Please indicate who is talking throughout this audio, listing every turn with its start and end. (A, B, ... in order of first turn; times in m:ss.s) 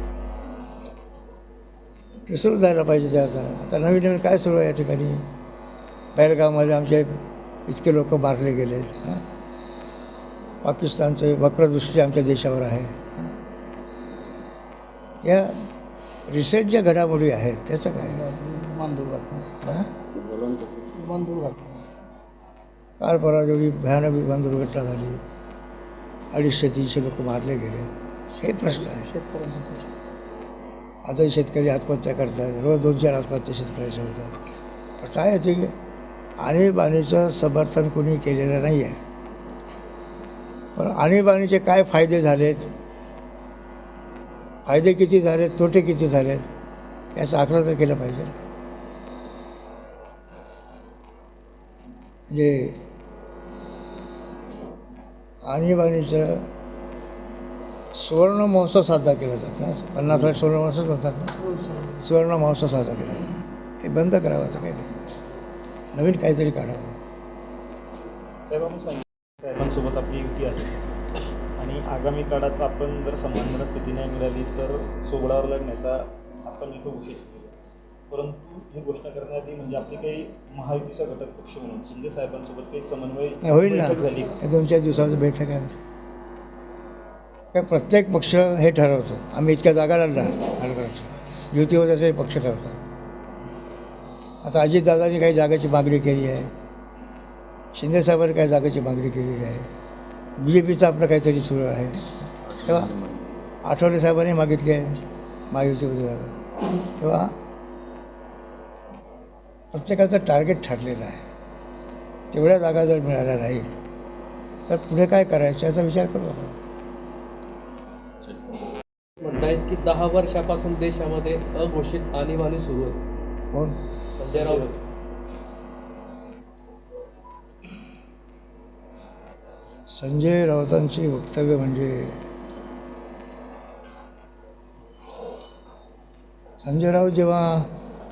0:02.3-0:05.2 A
0:06.2-0:09.2 A
0:10.6-0:13.3 A
0:15.2-0:15.5 A
0:16.3-0:18.3 A
0:18.0-0:19.4 B
0:19.4-0:19.9 A
0:20.1-0:21.8 B
0:23.0-0:25.2 A
0:26.3-0:29.1 A
0:28.4-0:29.9 B
0:31.0-0:34.4 A
0:35.0-0:35.7 A
0:36.4-0:39.0 A
0:40.8-0:42.7 A
0:44.6-0:46.5 A
0:47.1-0:48.4 A
0:52.3-0:52.8 A
0:55.4-0:56.5 A
0:57.9-1:01.4 A
1:01.9-1:05.0 A
1:05.9-1:07.0 A
1:08.4-1:10.8 C
1:11.6-1:17.5 C
1:18.1-1:24.4 C
1:23.4-1:25.8 A
1:27.5-1:32.8 A
1:34.4-1:36.5 A
1:37.7-1:39.7 A
1:40.4-1:43.0 A
1:43.6-1:45.0 A
1:45.5-1:46.4 A
1:47.0-1:47.3 A
1:49.7-1:51.3 A
1:52.3-1:53.8 A
1:54.7-1:56.5 A
1:59.2-2:03.0 D
2:03.5-2:03.8 A
2:04.1-2:04.8 D
2:04.3-2:04.7 C
2:09.9-2:12.2 A
2:16.6-2:17.7 A